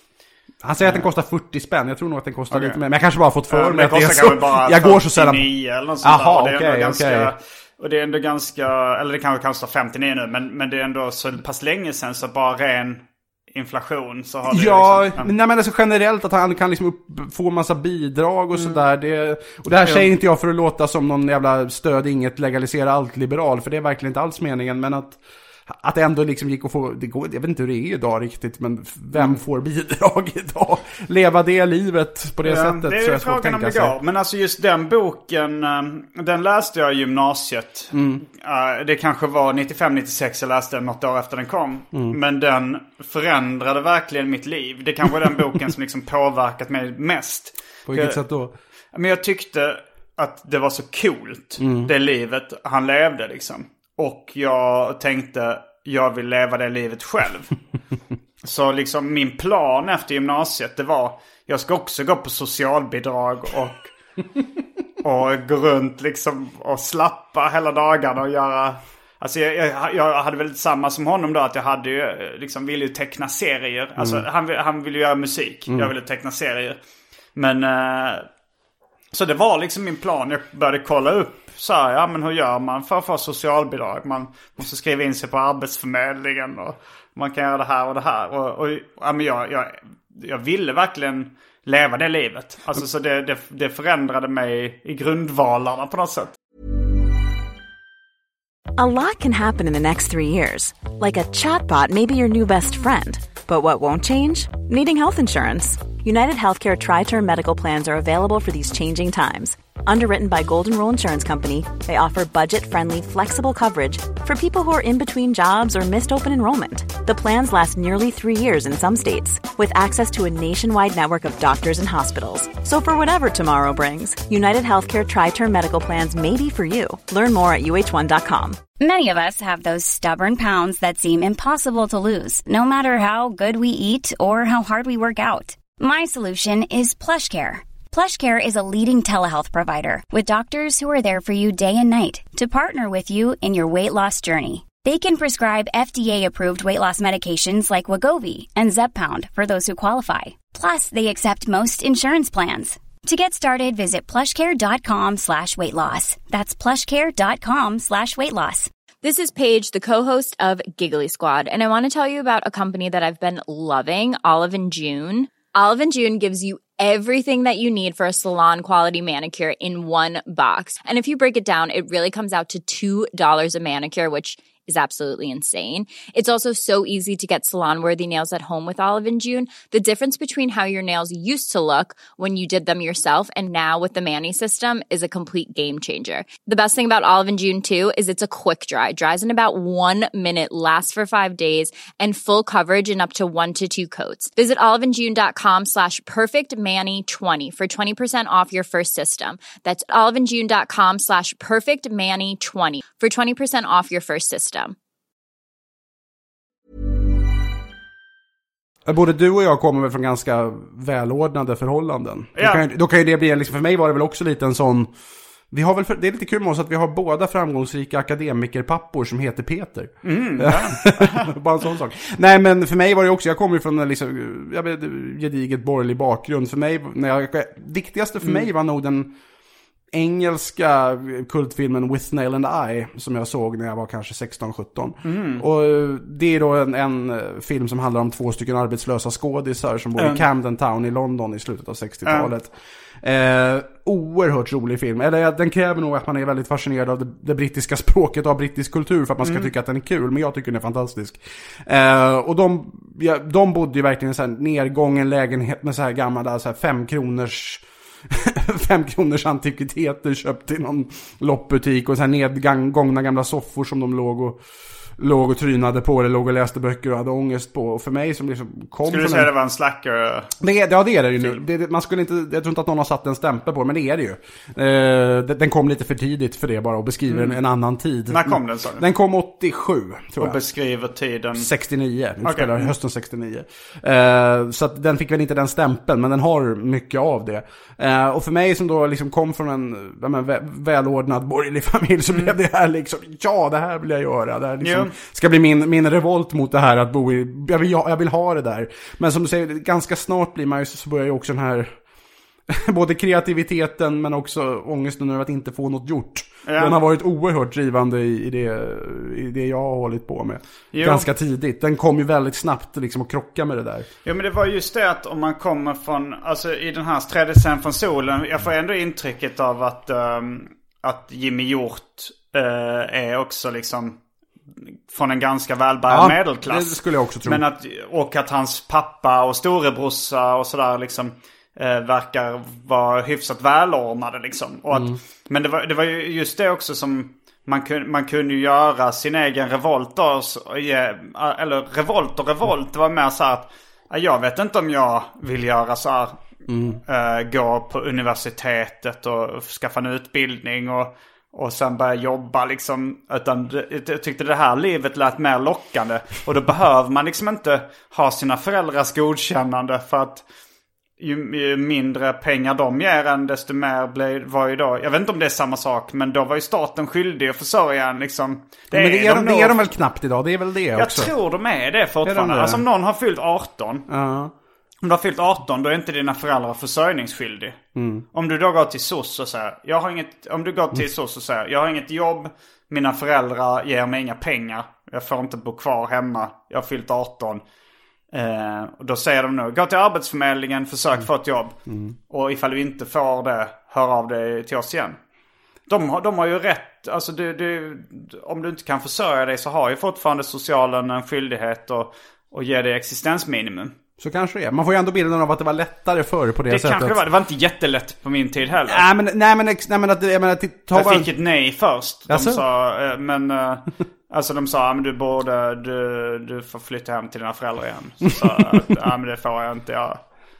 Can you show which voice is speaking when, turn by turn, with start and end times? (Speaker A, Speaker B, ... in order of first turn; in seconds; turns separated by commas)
Speaker A: 0.6-5.5, Speaker B: 2.5-2.8, Speaker B: 3.5-15.3, Speaker A: 6.0-7.3, Speaker A: 14.5-33.9, Speaker B: 32.4-48.2, Speaker A: 37.9-38.2, Speaker A: 47.9-48.5, Speaker B: 48.9-57.5, Speaker A: 51.6-51.9, Speaker B: 58.4-63.9, Speaker B: 65.0-76.8, Speaker A: 74.0-74.2, Speaker B: 77.3-78.2, Speaker B: 79.1-96.4, Speaker C: 98.8-128.6, Speaker D: 128.8-158.7, Speaker E: 159.0-204.8, Speaker A: 208.8-214.9, Speaker B: 212.4-212.6, Speaker A: 215.5-229.1, Speaker B: 220.0-221.3, Speaker A: 229.9-264.4, Speaker B: 235.0-235.4, Speaker B: 240.0-240.2, Speaker B: 242.0-242.3, Speaker B: 249.2-249.5, Speaker A: 265.0-269.3, Speaker B: 268.9-270.3, Speaker A: 270.4-280.4, Speaker B: 277.1-277.4, Speaker B: 278.1-278.8, Speaker B: 280.2-281.5, Speaker A: 281.4-301.7, Speaker B: 282.2-282.7, Speaker B: 294.6-294.9, Speaker A: 302.5-313.9, Speaker B: 306.4-306.8, Speaker B: 310.7-311.1, Speaker B: 314.0-324.0, Speaker B: 324.9-346.2, Speaker A: 325.9-327.4, Speaker A: 334.7-335.0, Speaker A: 346.5-346.8, Speaker B: 346.9-360.2, Speaker B: 361.0-369.6, Speaker A: 368.7-371.1, Speaker B: 370.8-373.9, Speaker A: 372.0-372.6, Speaker A: 373.9-374.3, Speaker B: 374.8-377.6, Speaker A: 377.7-378.0, Speaker B: 378.1-387.4, Speaker B: 388.1-391.6, Speaker A: 391.7-391.9, Speaker B: 392.1-395.0, Speaker B: 395.7-403.7, Speaker A: 404.0-407.0, Speaker B: 406.5-408.8, Speaker A: 408.7-411.1, Speaker B: 410.7-420.0, Speaker A: 412.1-412.4